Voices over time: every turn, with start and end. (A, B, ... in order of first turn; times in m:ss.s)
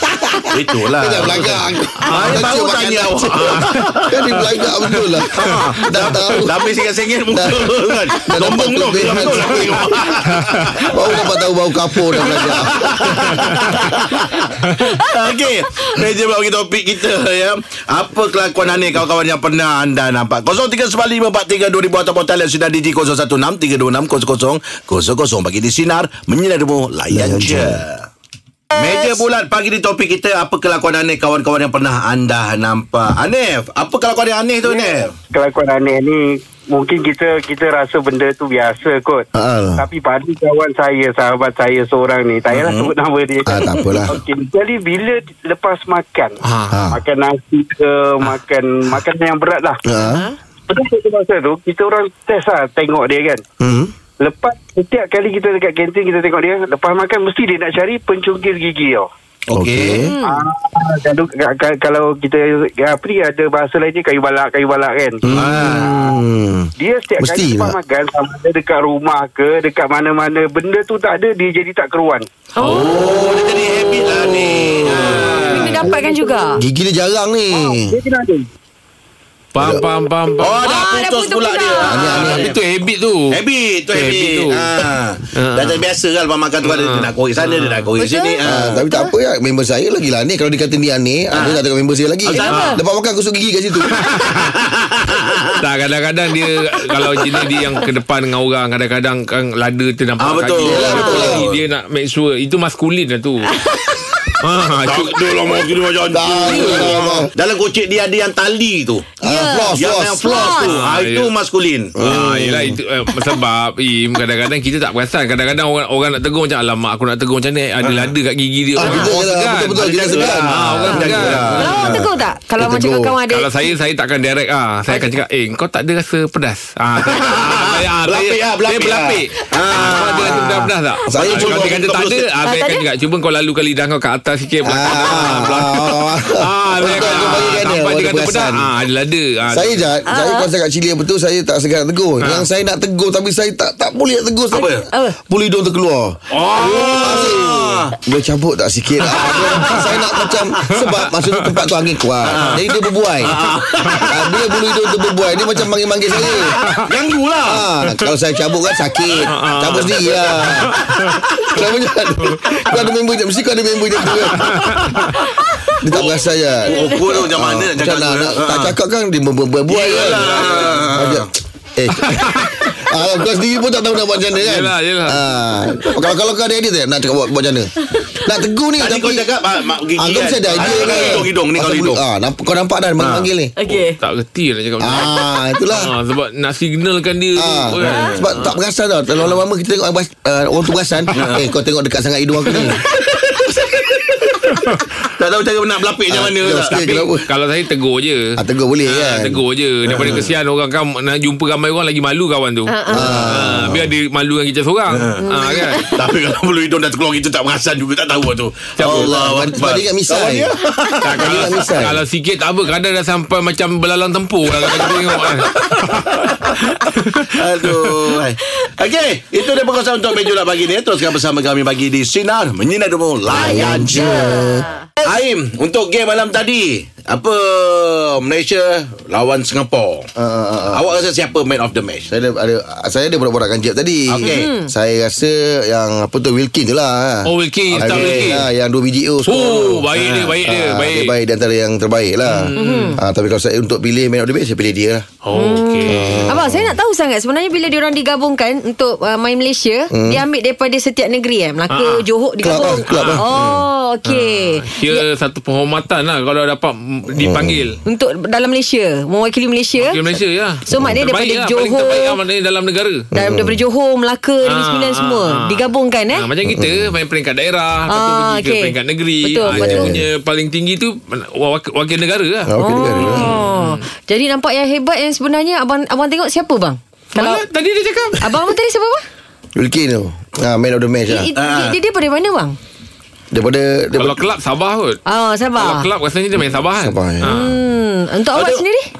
0:00.5-0:04.2 A
0:01.0-0:06.6 B
0:02.1-0:02.4 C
0:03.4-0:03.7 C
0:05.3-0:11.2 A
0:05.5-0:05.8 C
0:07.3-0:09.9 B
0:10.9-0:13.4 B
0:12.1-0:28.1 A
0:27.1-0:27.8 B
0:28.8-0:35.1 A
0:34.7-0:39.2 D
0:39.4-0:39.8 B
0:39.8-0:46.4 D
0:42.5-0:42.9 A
0:43.5-0:44.2 B
0:46.4-0:46.8 C
0:46.7-0:47.0 B
0:46.9-0:49.8 D
0:49.9-0:50.3 B
0:50.0-0:50.4 E
0:50.7-0:53.4 D
0:53.6-0:53.9 B
0:54.2-0:59.1 D
0:59.5-1:00.1 A
0:59.5-1:00.1 B
1:00.0-1:00.4 E
1:00.3-1:05.2 D
1:05.2-1:06.7 B
1:05.3-1:06.1 A
1:06.8-1:12.3 D
1:07.2-1:07.8 B
1:12.6-1:13.0 E
1:12.6-1:13.0 C
1:12.7-1:15.8 A
1:14.1-1:15.0 B
1:14.9-1:15.4 C
1:15.0-1:16.6 E
1:15.9-1:16.4 D
1:16.6-1:18.0 B
1:17.6-1:18.5 D
1:19.5-1:20.8 C
1:19.6-1:19.8 B
1:20.4-1:22.6 A
1:20.6-1:22.3 E
1:21.8-1:22.5 B
1:22.0-1:25.9 C
1:23.3-1:28.8 A
1:26.6-1:28.0 C
1:28.0-1:29.1 E
1:28.4-1:34.0 B
1:31.3-1:31.6 A
1:32.3-1:32.8 A
1:32.3-1:32.8 E
1:33.9-1:34.6 C
1:34.4-1:35.5 A
1:35.6-1:43.5 C
1:40.2-1:41.6 A
1:40.6-1:41.4 B
1:40.9-1:41.4 E
1:43.5-1:44.2 E
1:44.4-1:45.3 C
1:44.8-1:49.0 A
1:46.1-1:47.3 B
1:46.5-1:47.1 C
1:49.2-1:50.4 B
1:49.2-1:50.7 E
1:49.8-1:52.0 A
1:50.4-1:51.3 C
1:52.0-1:52.8 B
1:52.0-2:01.9 C
1:57.8-1:58.1 A
1:58.8-2:02.1 B
1:58.8-1:59.1 E
1:59.8-2:02.0 A
2:00.8-2:03.5 E
2:02.6-2:03.2 B
2:03.3-2:19.9 C
2:04.9-2:05.2 E
2:07.0-2:12.2 A
2:11.1-2:11.7 B
2:12.4-2:12.9 E
2:14.6-2:18.7 B
2:16.8-2:17.5 A
2:19.5-2:33.4 B
2:20.1-2:20.5 E
2:22.2-2:22.5 C
2:24.5-2:25.2 E
2:24.6-2:24.8 A
2:26.3-2:27.4 C
2:26.6-2:28.0 A
2:29.1-2:30.4 A
2:29.2-2:30.0 C
2:30.8-2:31.6 C
2:32.2-2:32.6 A
2:32.4-2:32.6 C
2:33.2-2:34.2 A
2:34.0-2:36.6 B
2:36.2-2:36.7 C
2:36.2-2:37.6 A
2:37.4-2:40.7 B
2:39.3-2:41.2 C
2:39.7-2:40.4 A
2:41.5-2:45.0 B
2:42.2-2:42.9 C
2:44.1-2:45.2 C
2:45.8-2:59.3 B
2:45.9-2:48.7 A
2:49.7-2:51.3 A
2:50.1-2:50.5 C
2:52.0-2:52.8 C
2:54.3-2:55.2 C
2:57.9-2:58.2 E
2:58.8-3:02.0 A
3:00.0-3:03.5 B
3:03.0-3:03.3 A
3:03.6-3:04.0 E
3:03.7-3:08.6 C
3:04.8-3:05.9 B
3:07.4-3:12.8 B
3:07.8-3:08.3 A
3:09.2-3:09.4 C
3:11.2-3:11.5 A
3:12.5-3:12.8 C
3:14.6-3:14.8 C
3:15.2-3:16.8 A
3:16.1-3:17.3 B
3:16.7-3:18.2 C
3:18.4-3:19.4 B
3:18.8-3:25.8 C
3:19.9-3:20.3 A
3:20.0-3:20.2 B
3:22.7-3:23.2 E
3:22.9-3:23.9 B
3:24.9-3:25.3 A
3:25.2-3:25.9 E
3:25.9-3:31.2 A
3:28.8-3:29.2 C
3:28.8-3:30.5 B
3:31.0-3:38.1 C
3:31.1-3:32.0 B
3:34.6-3:36.2 A
3:37.3-3:44.1 A
3:43.3-3:44.7 B
3:43.3-3:44.8 E
3:45.0-3:50.1 A
3:50.2-3:50.8 B
3:50.7-3:52.1 A
3:52.1-4:05.0 B
3:54.1-3:54.5 A
3:54.2-3:54.7 E
3:57.3-3:58.4 C
3:57.7-3:58.3 A
3:59.3-4:01.1 C
3:59.9-4:00.3 A
4:02.3-4:03.0 C
4:02.6-4:03.0 E
4:05.2-4:06.3 C
4:05.4-4:15.0 E
4:05.9-4:06.8 B
4:09.9-4:10.2 B
4:11.7-4:13.2 C
4:12.4-4:13.7 B
4:14.0-4:17.8 C
4:17.2-4:17.8 B
4:17.8-4:20.0 E
4:19.8-4:23.0 C
4:20.6-4:22.2 E
4:23.1-4:23.6 B
4:23.2-4:26.3 E
4:24.4-4:33.9 C
4:26.5-4:26.9 B
4:27.9-4:29.9 E
4:29.5-4:30.1 B
4:32.5-4:33.4 B
4:32.6-4:37.4 E
4:37.2-4:38.2 C
4:38.2-4:39.0 E
4:39.6-4:41.3 B
4:41.1-4:42.6 E
4:41.4-4:41.8 A
4:43.3-4:44.2 B
4:44.0-4:45.0 C
4:45.1-4:45.9 E
4:45.6-4:47.5 C
4:46.7-4:47.4 B
4:47.2-4:48.9 E
4:48.3-4:48.6 A